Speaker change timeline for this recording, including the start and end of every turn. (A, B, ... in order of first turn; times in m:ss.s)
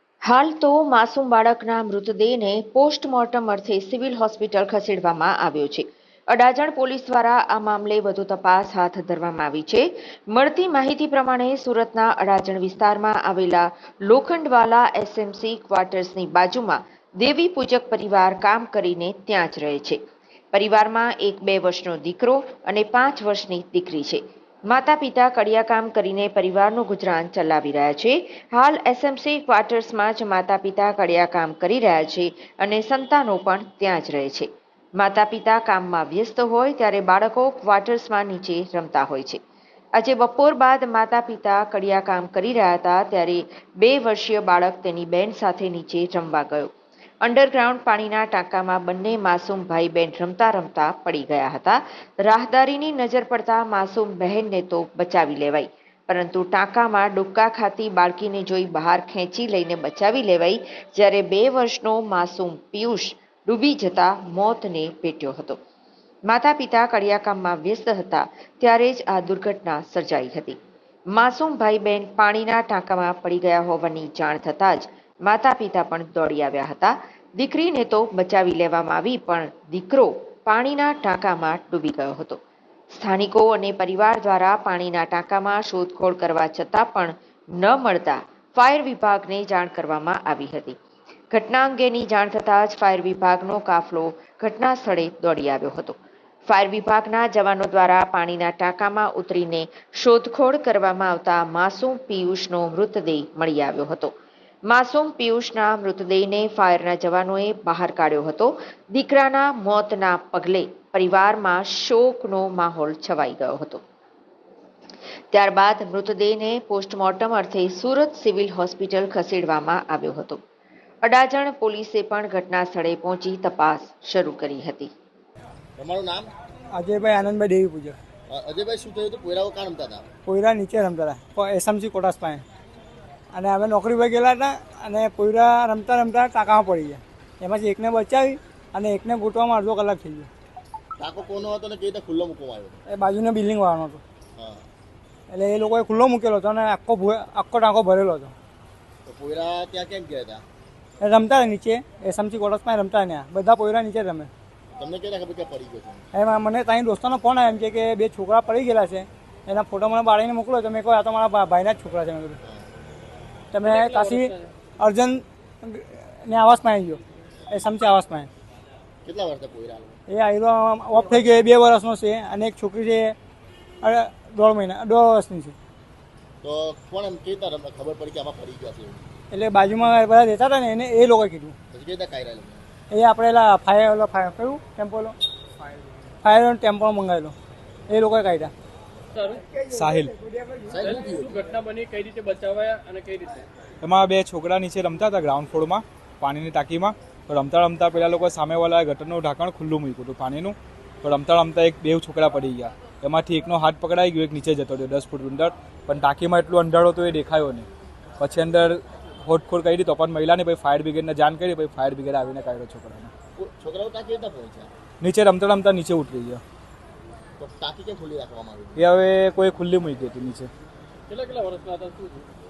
0:00.2-0:20.0 A
0:20.5-0:39.4 A
0:40.0-1:05.6 A
1:06.3-1:10.6 A
1:11.1-1:22.4 A
1:22.9-1:30.8 A
1:31.3-1:44.1 A
1:44.7-1:53.8 A
1:55.3-2:00.4 A
2:01.0-2:04.9 A
2:05.8-2:06.3 B
2:06.7-2:08.0 C
2:08.3-2:10.0 B
2:10.2-2:12.4 C
2:13.3-2:20.3 C
2:21.0-2:22.8 B
2:22.9-2:24.0 C
2:24.4-2:24.7 B
2:25.3-2:28.3 C
2:29.0-2:30.4 B
2:31.0-2:34.3 C
2:34.8-2:36.1 B
2:36.1-2:42.4 C
2:42.4-2:42.7 B
2:43.5-2:48.3 C
2:43.6-2:44.5 D
2:49.0-2:50.0 B
2:50.1-2:53.2 C
2:53.8-2:55.6 C
2:56.4-2:59.0 B
2:59.3-3:01.5 C
3:01.7-3:02.7 B
3:02.9-3:05.2 C
3:06.2-3:07.3 C
3:07.9-3:08.5 C
3:09.2-3:09.6 D
3:09.7-3:10.1 E
3:10.3-3:10.6 C
3:10.7-3:11.4 B
3:10.8-3:13.4 D
3:13.8-3:27.7 E
3:28.2-3:33.1 E
3:33.4-3:34.7 B
3:35.0-3:36.4 E
3:37.4-3:38.8 B
3:38.8-3:40.5 E
3:41.1-3:42.3 D